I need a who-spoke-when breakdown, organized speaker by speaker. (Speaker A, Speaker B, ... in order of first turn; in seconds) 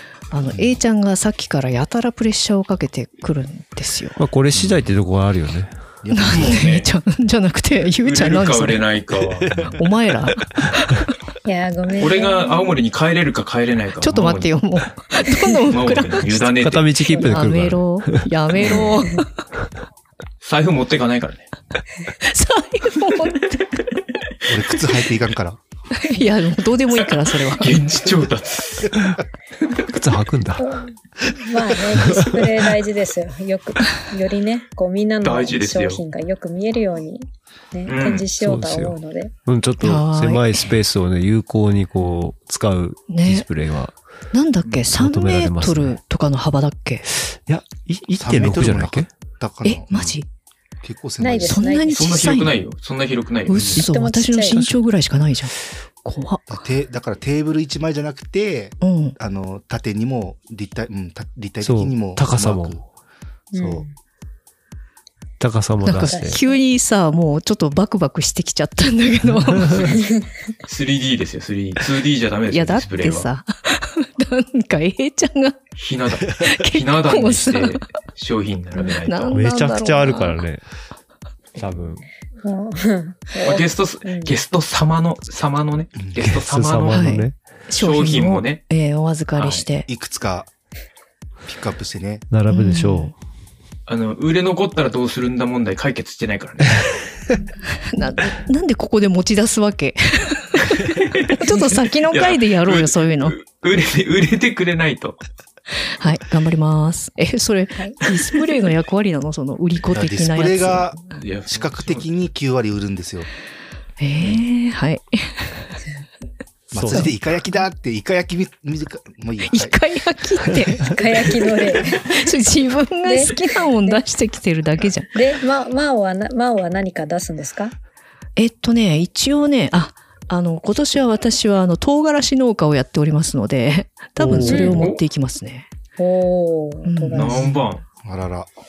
Speaker A: 0.3-4.2, 6.1-8.8, 9.8-10.9, 14.0-19.3, 22.1-23.8, 26.0-27.8, 39.8-40.5, 43.1-43.5, 44.3-47.0, 49.6-50.3, 51.5-52.6, 53.5-56.5, 58.8-59.1, 65.8-70.0, 72.5-75.6, 76.3-77.8, 79.0-80.4, 86.9-89.9, 92.5-93.1, 97.9-103.4, 106.0-111.2, 114.0-115.7, 116.9-117.2, 119.5-121.0, 122.0-125.1, 128.4-135.7, 136.8-137.7
Speaker B: 4.2-5.7, 16.6-18.2, 29.9-30.7, 32.0-32.3, 38.4-43.9, 44.9-46.0, 47.2-49.1, 61.6-62.8, 65.4-66.4, 79.3-80.6, 81.6-82.0, 86.2-87.4, 92.3-93.1, 116.7-117.1, 134.2-134.6
Speaker C: 4.5-4.8, 6.0-6.6, 24.5-25.6, 48.2-50.2, 50.8-51.6, 56.5-62.8, 63.6-63.8, 86.0-86.2, 89.9-90.5, 91.4-92.2, 109.9-111.0, 111.5-113.3, 116.7-119.8, 138.0-138.5
Speaker D: 6.3-6.9, 8.0-9.7, 11.9-14.5, 15.7-16.9, 18.5-18.9, 20.4-21.5, 27.0-28.9, 35.2-36.0, 37.9-38.3, 51.9-53.8, 70.7-73.3, 75.8-79.4, 83.4-87.2, 87.8-88.6, 89.3-89.6, 93.9-96.9, 100.9-105.2, 111.2-112.0, 134.6-135.0, 137.1-137.8
Speaker E: 11.4-12.8, 30.6-39.3, 51.2-52.1, 53.7-54.7, 63.5-63.9, 65.9-66.6, 69.8-70.3, 82.4-84.3, 107.8-108.0, 120.8-122.2, 123.0-124.0, 125.1-127.7, 134.4-134.8, 136.0-137.6